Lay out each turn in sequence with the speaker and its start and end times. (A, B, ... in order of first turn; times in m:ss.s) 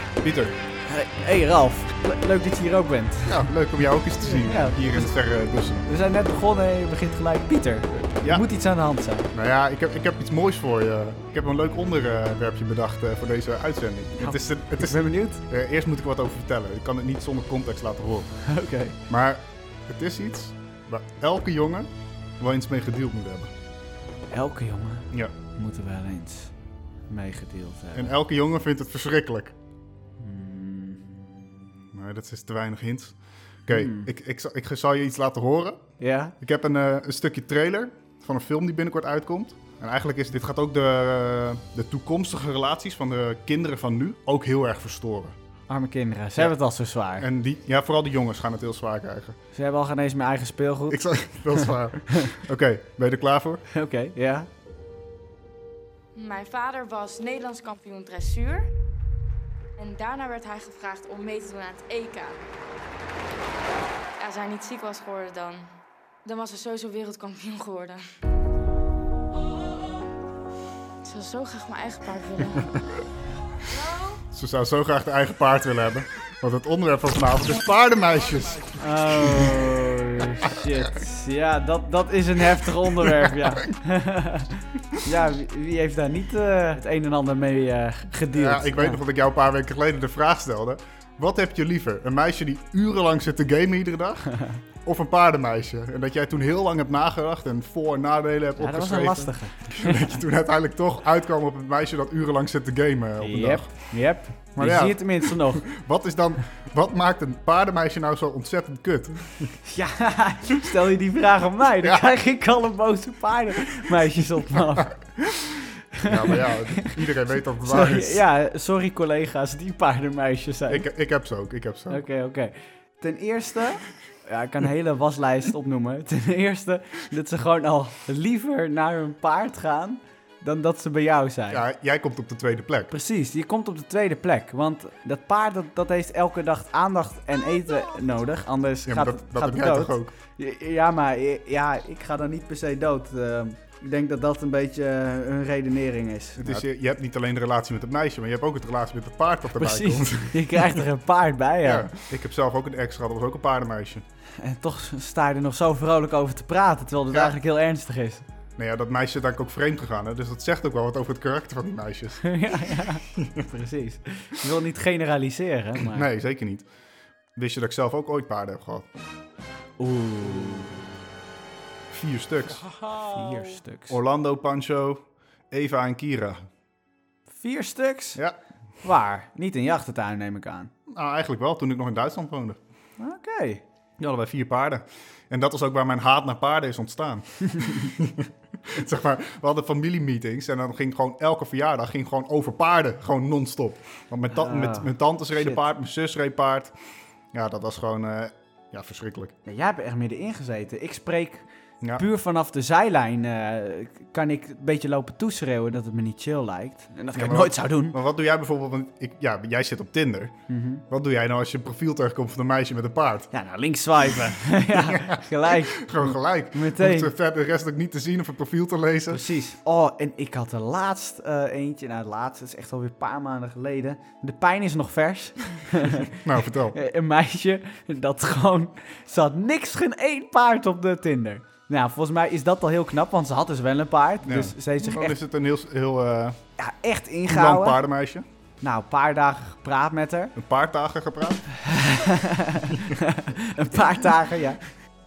0:00.2-0:00.5 A
0:00.8-0:03.3 B
0:03.2-0:05.9 A
0:04.4-0:05.1 B
0:05.8-0:09.3 B
0:08.2-0:08.5 A
0:09.3-0:18.3 A
0:14.2-0:15.4 B
0:18.5-0:19.0 B
0:19.1-0:23.5 A
0:24.3-0:26.5 B
0:27.1-0:28.1 B
0:27.9-0:29.5 A
0:30.2-0:31.5 B
0:31.9-0:35.8 A
0:33.7-0:34.1 B
0:36.0-0:36.3 B
0:36.4-0:45.3 A
0:45.7-0:47.2 B
0:47.2-0:49.4 A
0:49.5-0:52.3 B
0:50.9-0:53.6 A
0:53.7-0:54.5 B
0:56.2-0:58.7 C
0:59.8-1:02.4 C
1:04.2-1:05.7 C
1:06.2-1:08.0 C
1:11.0-1:12.7 C
1:13.7-1:14.2 C
1:14.3-1:18.7 A
1:18.8-1:29.0 B
1:28.3-1:43.7 A
1:38.6-1:40.2 B
1:43.2-1:45.7 B
1:44.6-1:49.5 A
1:49.6-1:55.2 B
1:51.8-1:52.1 A
1:56.0-1:57.0 B
1:56.0-1:58.2 A
1:57.6-2:00.9 B
2:00.7-2:02.0 A
2:01.9-2:11.6 B
2:11.5-2:12.9 A
2:12.9-2:26.6 B
2:18.9-2:20.1 A
2:26.4-2:30.8 A
2:29.5-2:31.9 B
2:31.6-2:34.0 A
2:34.4-2:38.2 B
2:38.6-2:42.2 A
2:42.2-2:46.0 B
2:45.9-2:46.7 A
2:47.3-2:48.9 A
2:49.8-2:50.8 B
2:51.9-2:52.6 A
2:52.8-2:54.0 B
2:53.9-2:56.4 A
2:57.3-2:58.2 B
2:58.8-3:00.7 B
3:00.9-3:02.6 A
3:03.0-3:03.6 B
3:04.0-3:16.7 A
3:14.3-3:15.6 B
3:17.3-3:19.3 A
3:19.4-3:21.4 B
3:22.0-3:28.0 B
3:27.1-3:30.3 A
3:30.5-3:30.8 B
3:30.9-3:33.3 A
3:33.3-3:37.1 B
3:34.7-3:39.2 A
3:39.1-3:55.2 B
3:46.1-3:46.8 A
3:54.2-3:56.4 A
3:56.6-3:57.8 B
3:57.2-3:58.2 A
3:58.6-4:00.3 B
4:00.4-4:01.4 A
4:01.5-4:04.6 B